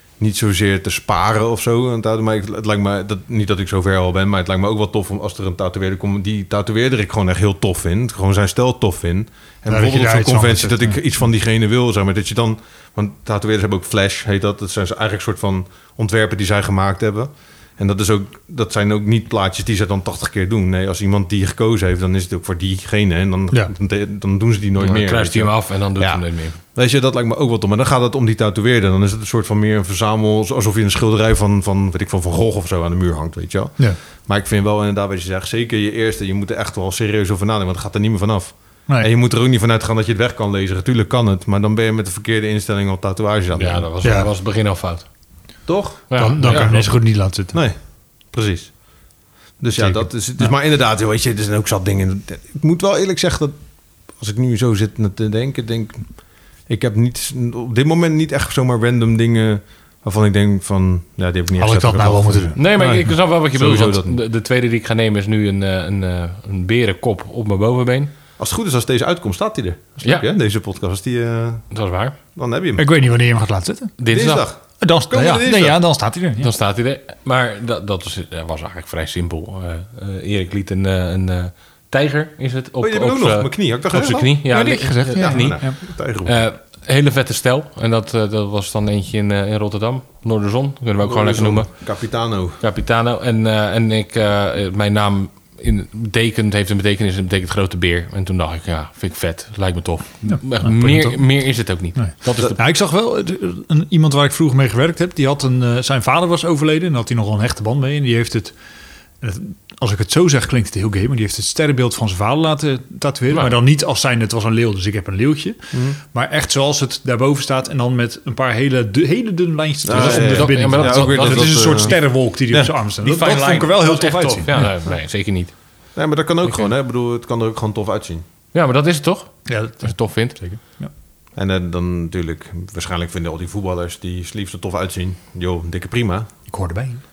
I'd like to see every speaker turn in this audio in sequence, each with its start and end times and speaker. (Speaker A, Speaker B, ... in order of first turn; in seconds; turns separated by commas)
Speaker A: 0.2-43.9, Speaker B: 9.7-11.0, Speaker C: 24.8-26.6, Speaker C: 43.5-45.0, Speaker B: 44.0-44.3, Speaker A: 45.7-46.8, Speaker C: 46.1-46.9, Speaker B: 46.1-47.6, Speaker A: 47.5-47.8, Speaker A: 48.3-48.7, Speaker A: 49.6-53.5, Speaker B: 49.8-50.5, Speaker A: 54.2-56.1, Speaker A: 56.7-64.2, Speaker B: 61.6-63.0, Speaker C: 62.5-68.1, Speaker A: 68.4-71.6, Speaker C: 71.7-72.2, Speaker A: 72.3-72.8, Speaker B: 72.8-74.0, Speaker C: 74.0-74.5, Speaker A: 74.1-75.8, Speaker B: 74.8-76.5, Speaker C: 76.4-91.7, Speaker A: 82.8-84.3, Speaker B: 84.5-85.7, Speaker A: 85.2-86.4, Speaker A: 91.0-92.6, Speaker C: 92.6-102.6, Speaker B: 100.2-101.2, Speaker B: 102.0-108.5, Speaker B: 109.2-124.7, Speaker C: 113.3-113.5, Speaker A: 115.7-116.0, Speaker A: 119.8-122.8, Speaker C: 119.9-121.9, Speaker C: 123.0-125.5, Speaker A: 126.0-128.2, Speaker C: 128.5-130.4, Speaker B: 129.5-130.9, Speaker A: 131.3-136.3, Speaker B: 136.5-137.0